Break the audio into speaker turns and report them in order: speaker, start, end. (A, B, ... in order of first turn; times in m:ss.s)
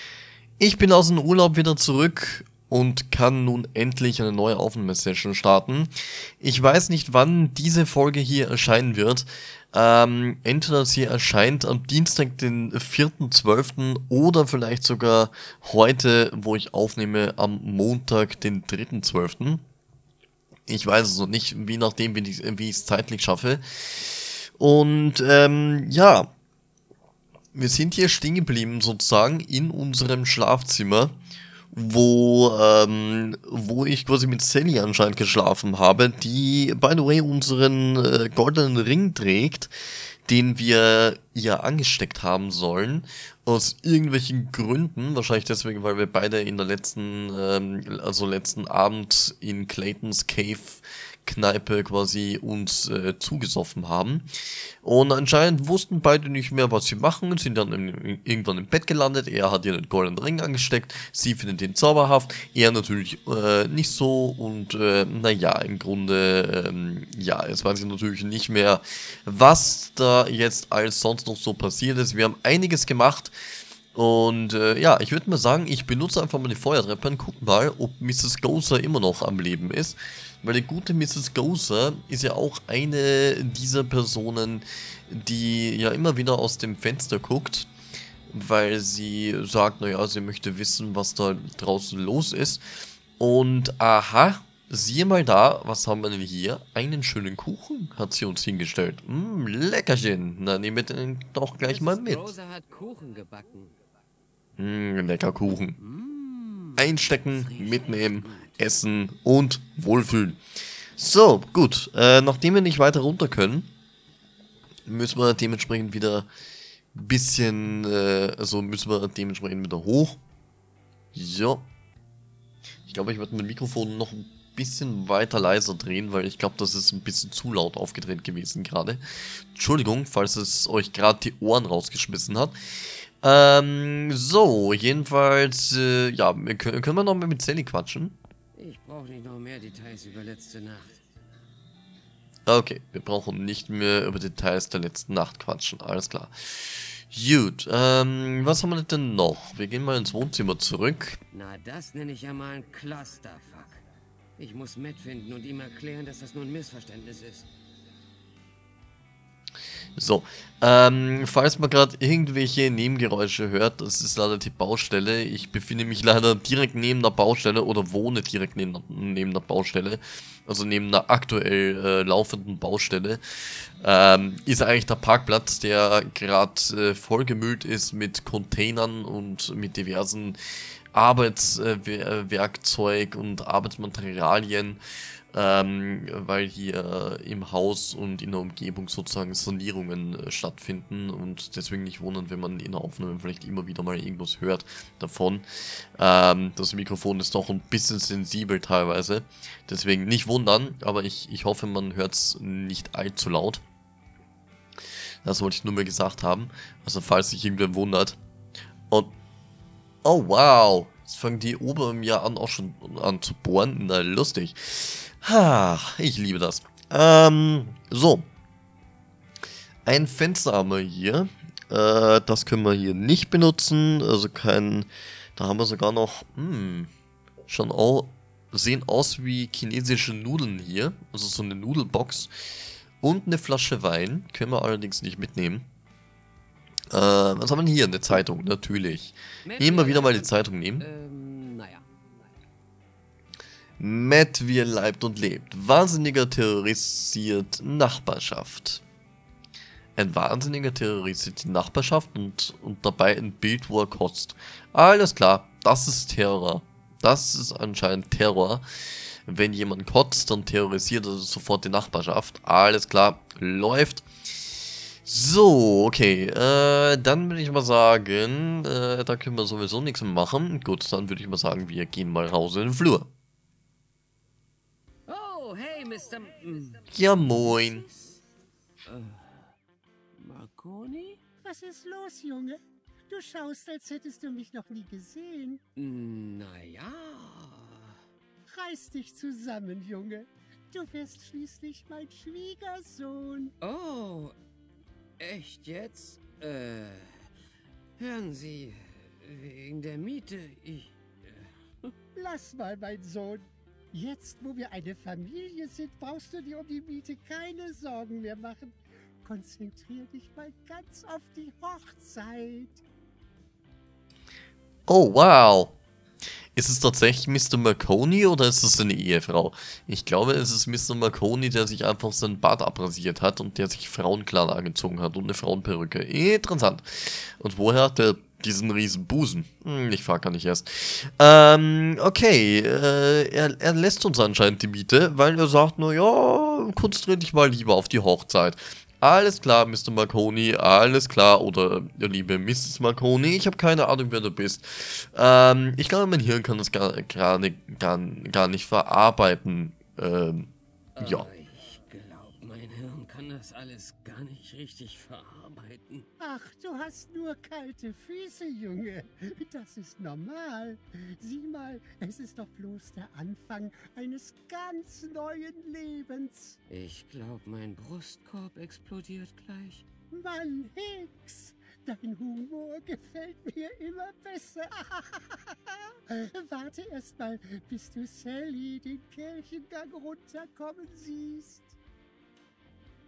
0:00.6-0:19.6 A
0:20.7-0:26.3 A
0:27.5-0:31.2 A
0:31.7-0:39.7 A
0:40.3-0:54.2 A
0:54.8-1:13.3 A
1:13.9-1:27.7 A
1:28.3-1:42.3 A
1:41.6-1:43.8 B
1:44.6-1:45.8 A
1:45.8-1:48.6 B
1:46.8-1:50.4 A
1:51.0-1:53.7 A
1:54.9-1:56.3 A
1:56.9-2:00.2 A
2:01.1-2:01.6 A
2:02.9-2:12.5 A
2:13.2-2:18.2 A
2:18.5-2:21.0 B
2:22.5-2:31.2 A
2:31.3-2:33.8 B
2:34.4-2:37.5 B
2:40.0-2:53.2 A
2:53.8-3:00.4 A
3:00.9-3:04.8 A
3:05.3-3:23.6 A
3:25.2-3:28.2 A
3:30.0-3:38.3 A
3:39.8-3:46.9 A
3:47.5-3:52.3 A
3:53.0-3:55.7 A
3:56.9-4:00.9 A
3:59.4-4:01.8 B
4:03.8-4:08.8 A
4:10.0-4:24.1 A
4:25.0-4:33.1 A
4:35.1-4:38.2 B
4:36.9-4:37.8 A
4:38.8-4:39.4 B
4:40.2-4:41.2 B
4:41.4-4:45.6 C
4:45.8-4:47.9 B
4:48.5-4:53.5 C
4:53.6-4:54.4 B
4:55.2-4:57.1 B
4:58.0-5:01.5 B
5:02.1-5:12.8 C
5:14.9-5:15.8 A
5:16.6-5:51.3 A
5:51.0-5:56.1 B
5:56.2-6:06.6 C
6:06.7-6:09.8 B
6:10.1-6:21.8 C